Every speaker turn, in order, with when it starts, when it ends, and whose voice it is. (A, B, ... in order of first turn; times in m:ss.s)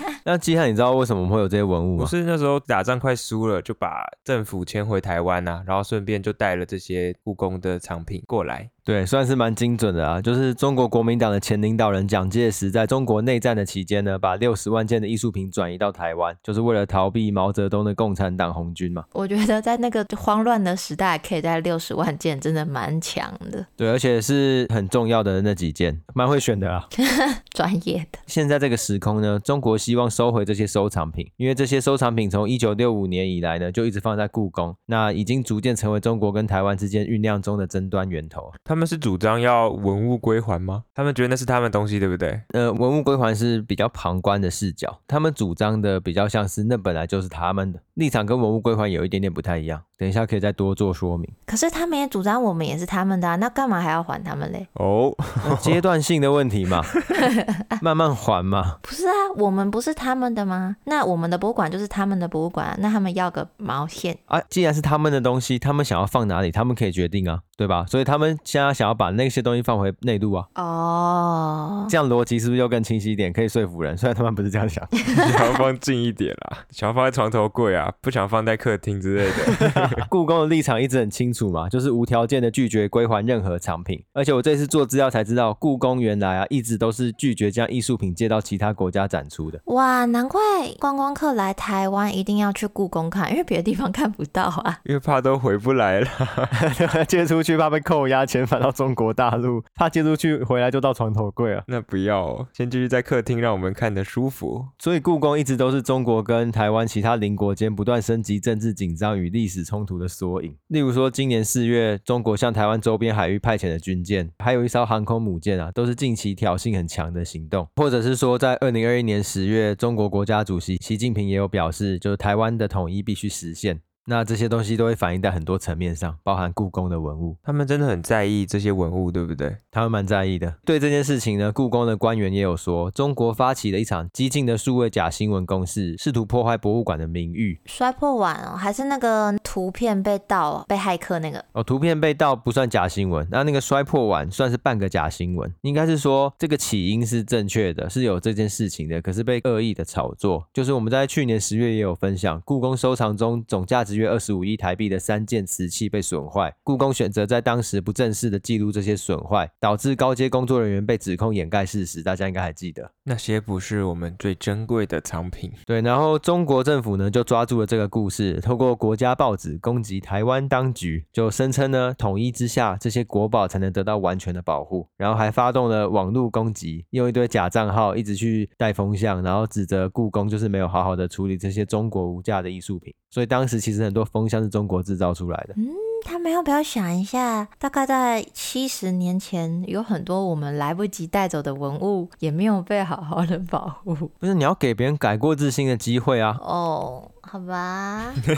0:00.2-0:02.1 A
0:02.0-0:08.7 B
0:08.8-0:19.0 A
0:19.1-0:23.7 C
0:23.8-0:26.9 A
0:27.0-0:28.2 C
0:28.3-0:38.5 A
0:38.7-0:42.4 B
0:42.5-0:51.3 A
0:51.5-0:54.7 C
0:54.8-0:55.8 B
0:55.4-0:56.9 A
0:57.1-0:57.6 C
0:57.8-0:58.8 A
0:58.8-1:04.2 C
1:04.3-1:10.5 A
1:10.6-1:11.9 C
1:11.9-1:14.9 A
1:15.1-1:15.5 C
1:15.1-1:20.0 B
1:19.5-1:29.6 A
1:29.6-1:34.8 C
1:34.8-1:36.6 B
1:36.5-1:41.6 A
1:41.7-1:44.7 B
1:44.8-2:07.4 A
2:07.4-2:09.6 B
2:09.7-2:17.6 A
2:17.7-2:21.4 C
2:21.5-2:42.9 A
2:43.0-2:45.6 B
2:45.7-3:05.6 A
3:05.6-3:14.1 C
3:14.2-3:16.4 A
3:16.4-3:18.2 C